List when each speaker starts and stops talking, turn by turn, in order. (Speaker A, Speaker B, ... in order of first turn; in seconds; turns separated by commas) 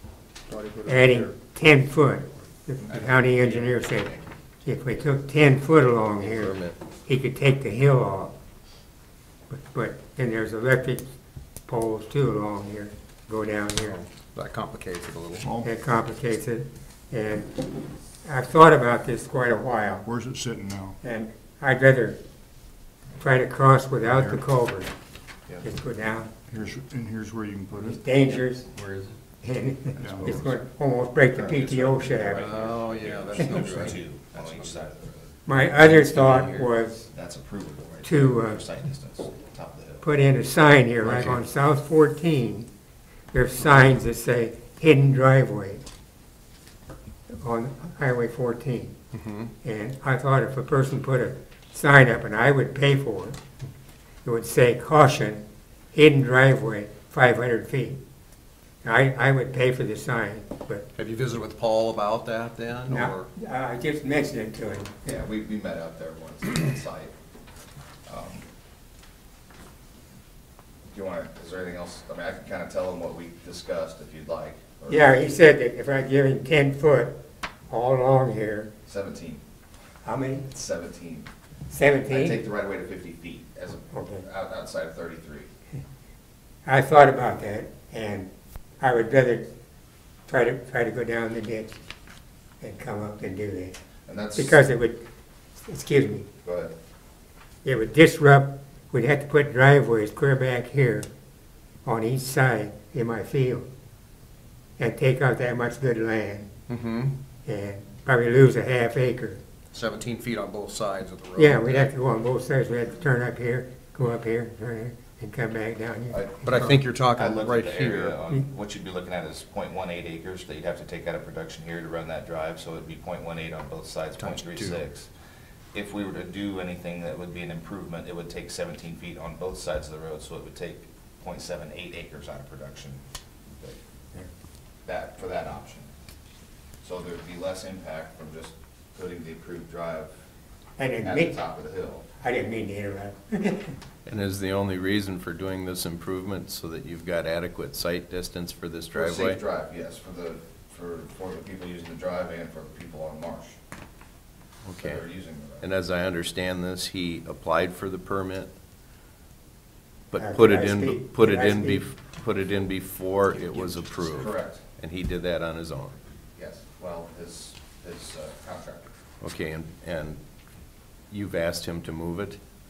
Speaker A: 0.5-1.3, Speaker B: 0.8-8.3, Speaker C: 6.2-6.8, Speaker B: 9.5-11.1, Speaker B: 11.7-14.1, Speaker D: 14.1-15.5, Speaker A: 15.4-15.7, Speaker B: 15.6-17.6, Speaker B: 18.2-20.1, Speaker A: 20.0-21.0, Speaker B: 21.0-22.2, Speaker B: 23.2-24.9, Speaker A: 24.0-24.4, Speaker B: 25.6-26.3, Speaker A: 26.5-28.0, Speaker B: 27.8-28.7, Speaker D: 28.8-29.1, Speaker C: 28.8-29.0, Speaker B: 29.4-32.4, Speaker A: 30.0-30.4, Speaker E: 30.2-30.5, Speaker E: 31.3-35.3, Speaker D: 32.3-34.7, Speaker C: 32.8-34.0, Speaker B: 35.5-37.1, Speaker D: 36.0-36.6, Speaker E: 37.1-40.0, Speaker B: 38.0-38.6, Speaker B: 40.0-42.7, Speaker B: 43.3-45.8, Speaker B: 47.3-49.0, Speaker D: 49.1-49.5, Speaker B: 49.6-53.4, Speaker B: 54.2-58.0, Speaker B: 58.8-60.9, Speaker D: 61.0-63.3, Speaker B: 62.9-65.2, Speaker E: 65.0-67.1, Speaker E: 68.1-68.5, Speaker E: 70.9-75.2, Speaker B: 74.9-78.7, Speaker E: 78.8-79.4, Speaker B: 80.0-80.5, Speaker E: 80.5-81.3, Speaker B: 81.7-82.4, Speaker E: 82.1-85.5, Speaker B: 83.9-84.2, Speaker B: 86.7-89.5, Speaker B: 90.3-91.8, Speaker B: 92.6-93.8, Speaker E: 94.1-94.6, Speaker B: 94.3-95.0, Speaker B: 95.6-96.3, Speaker E: 96.4-96.8, Speaker B: 97.6-101.1, Speaker B: 101.8-103.7, Speaker B: 104.8-106.5, Speaker D: 106.7-107.1, Speaker B: 107.5-109.4, Speaker D: 109.7-111.9, Speaker B: 111.3-116.7, Speaker E: 116.1-125.1, Speaker D: 116.4-118.2, Speaker D: 124.2-124.8, Speaker E: 125.7-133.0, Speaker E: 134.8-135.9, Speaker E: 136.8-140.1, Speaker B: 140.8-141.3, Speaker E: 141.0-142.1, Speaker B: 142.2-143.8, Speaker C: 144.1-149.4, Speaker E: 148.9-153.6, Speaker C: 154.7-155.0, Speaker E: 154.8-155.7, Speaker C: 155.6-158.5, Speaker C: 160.1-165.9, Speaker B: 160.1-161.8, Speaker E: 164.1-164.6, Speaker E: 166.4-168.9, Speaker C: 169.2-170.2, Speaker C: 171.1-172.4